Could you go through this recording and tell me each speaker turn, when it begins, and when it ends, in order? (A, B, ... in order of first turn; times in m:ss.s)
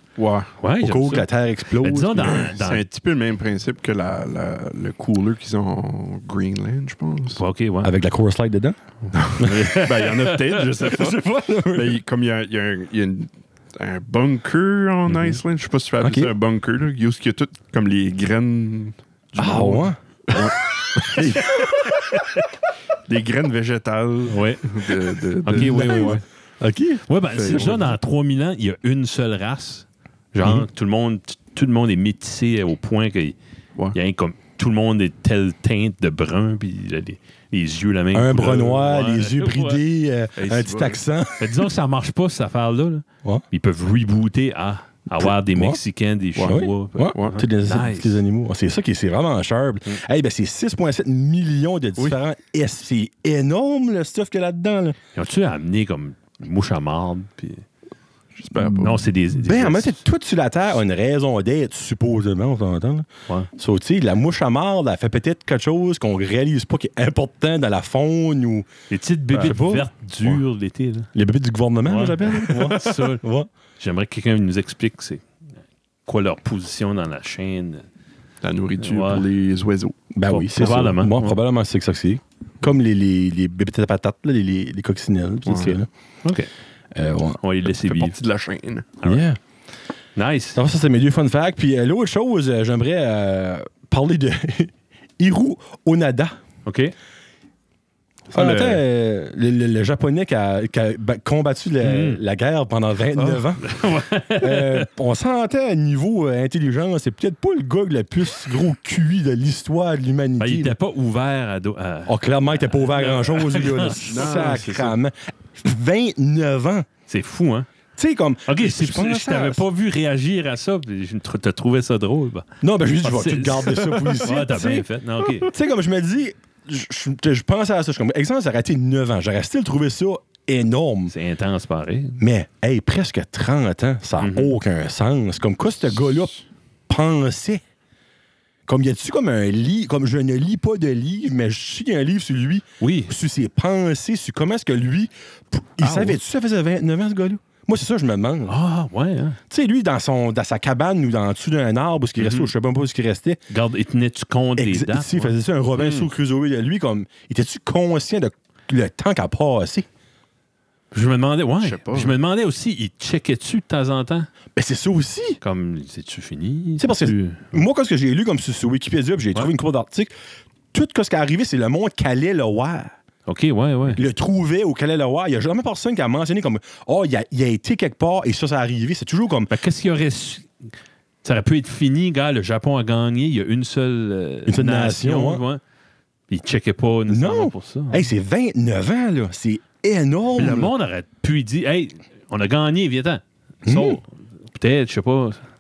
0:00.2-0:00.6 A
0:00.6-0:01.3 B
0:00.8-0:02.5 C
0:01.8-0:02.8 B
0:02.2-0:07.4 A
0:07.4-0:07.9 B
0:07.8-0:08.8 C
0:09.0-0:10.6 B
0:09.1-0:21.6 A
0:09.4-0:09.7 C
0:10.8-0:12.0 C
0:15.1-0:15.4 B
0:16.0-0:16.3 C
0:19.4-0:22.2 C
0:23.1-0:26.2 A
0:24.3-0:24.6 B
0:25.4-0:26.2 B
0:25.5-0:27.7 C
0:27.1-0:33.4 B
0:27.3-0:27.9 A
0:33.9-0:39.8 B
0:38.1-0:41.7 C
0:40.4-0:41.0 A
0:41.4-0:48.2 B
0:45.2-0:45.8 C
0:46.4-0:46.6 A
0:46.4-0:55.0 C
0:47.1-0:47.4 A
0:55.2-0:57.6 B
0:58.4-0:59.1 A
0:58.6-1:08.7 C
0:58.7-1:00.0 B
1:08.9-1:11.1 B
1:09.3-1:10.4 C
1:11.1-1:13.5 C
1:11.8-1:13.2 B
1:13.8-1:15.2 B
1:16.1-1:17.8 B
1:18.4-1:20.0 A
1:18.8-1:19.3 B
1:20.1-1:25.9 C
1:20.3-1:21.4 B
1:25.5-1:25.8 A
1:26.2-1:26.5 B
1:26.9-1:27.4 C
1:27.4-1:28.2 B
1:27.8-1:28.9 A
1:29.0-1:29.4 C
1:30.2-1:30.6 B
1:30.6-1:36.4 C
1:36.7-1:37.0 B
1:38.3-1:38.8 A
1:38.3-1:43.7 C
1:41.8-1:42.2 B
1:43.2-1:43.4 A
1:43.6-1:44.9 B
1:44.3-1:50.8 C
1:50.4-1:54.6 B
1:52.1-1:56.9 C
1:54.0-1:55.0 A
1:57.1-1:57.7 B
1:58.0-1:59.6 C
1:58.5-2:02.5 B
2:02.6-2:04.9 C
2:03.0-2:05.5 B
2:05.4-2:11.1 C
2:11.1-2:12.2 B
2:12.2-2:16.4 C
2:14.2-2:14.6 B
2:16.9-2:17.6 C
2:18.7-2:28.6 C
2:22.8-2:23.1 B
2:25.8-2:26.2 B
2:28.5-2:29.4 B
2:29.5-2:33.4 C
2:33.5-2:35.3 B
2:34.6-2:39.9 C
2:40.9-2:44.3 B
2:41.6-2:42.2 A
2:44.6-2:45.4 C
2:45.4-2:47.6 B
2:46.8-2:50.1 C
2:50.7-2:52.9 C
2:53.3-2:54.0 B
2:53.9-2:59.5 C
2:59.5-3:00.5 B
3:01.2-3:05.6 B
3:04.5-3:05.4 C
3:06.3-3:08.1 B
3:07.1-3:10.7 C
3:10.4-3:15.4 B
3:13.6-3:14.0 C